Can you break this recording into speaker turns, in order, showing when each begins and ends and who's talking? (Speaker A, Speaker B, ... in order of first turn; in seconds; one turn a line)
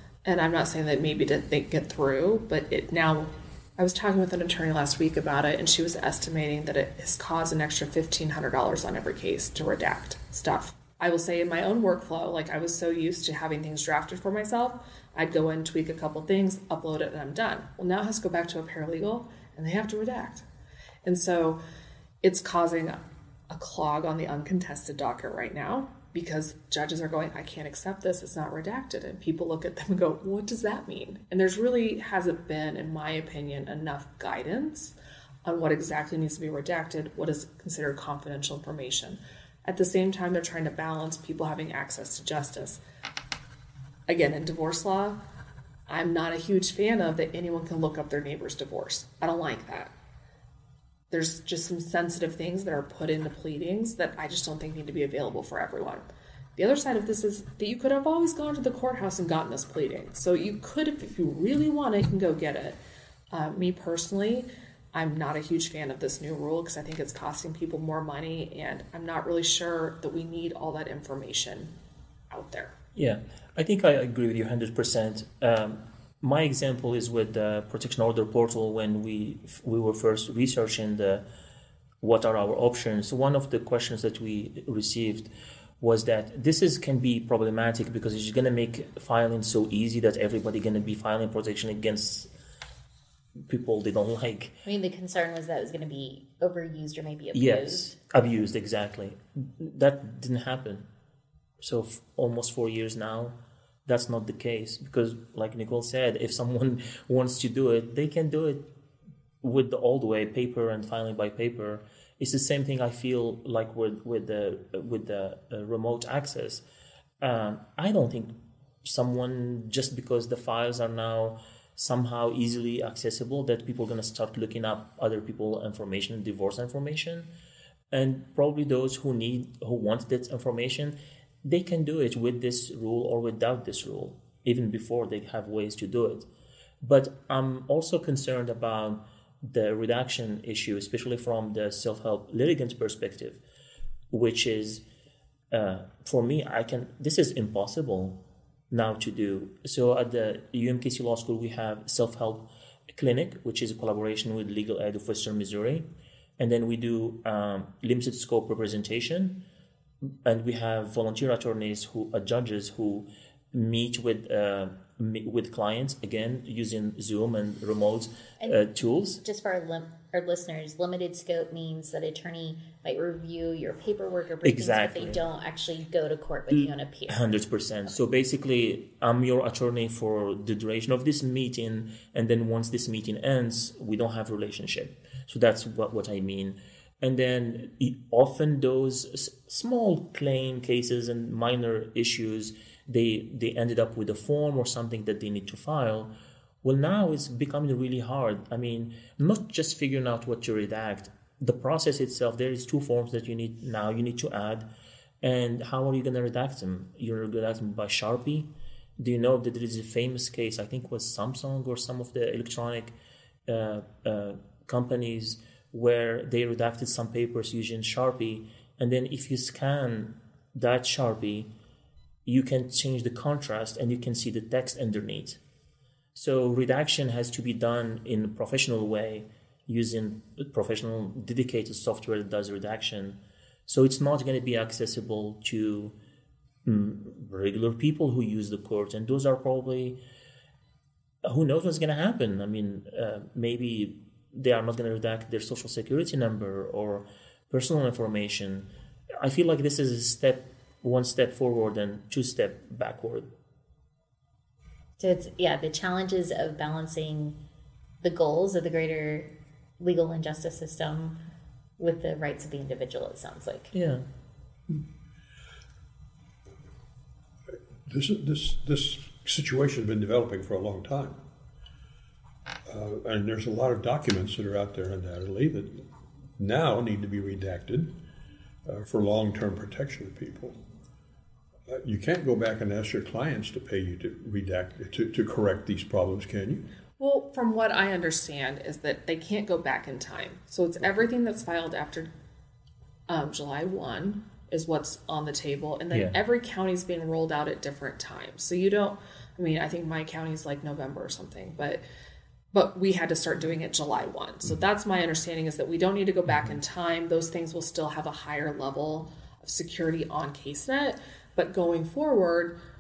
Speaker A: 0.2-20.4
Speaker A: 21.0-21.6
Speaker A: 22.2-42.8
Speaker A: 44.1-45.2
Speaker A: 45.9-49.9
Speaker A: 51.1-56.0
Speaker A: 56.6-62.8
Speaker A: 63.3-71.7
Speaker A: 72.3-72.7
Speaker B: 73.0-81.2
Speaker B: 82.0-92.3
Speaker B: 93.5-94.6
Speaker C: 94.7-97.9
Speaker B: 97.3-100.9
Speaker B: 101.6-108.7
Speaker B: 109.4-116.6
Speaker B: 117.2-127.3
Speaker B: 127.9-136.3
Speaker B: 136.8-143.4
Speaker B: 144.1-144.8
Speaker B: 145.5-155.9
Speaker B: 156.4-159.4
Speaker B: 160.2-169.2
Speaker C: 168.4-177.2
Speaker B: 174.4-175.2
Speaker B: 176.5-196.1
Speaker B: 196.6-204.7
Speaker B: 205.2-212.9
Speaker B: 213.5-221.5
Speaker B: 222.3-225.4
Speaker B: 226.2-235.9
Speaker B: 236.7-240.0
Speaker B: 241.2-248.7
Speaker B: 249.2-253.3
Speaker C: 255.0-257.4
Speaker C: 258.0-261.2
Speaker C: 261.8-263.7
Speaker B: 263.7-264.1
Speaker D: 267.9-271.2
Speaker D: 272.7-278.0
Speaker D: 278.6-280.6
Speaker D: 281.7-286.7
Speaker A: 287.0-292.1
Speaker A: 293.1-301.8
Speaker B: 295.9-296.2
Speaker A: 302.5-312.6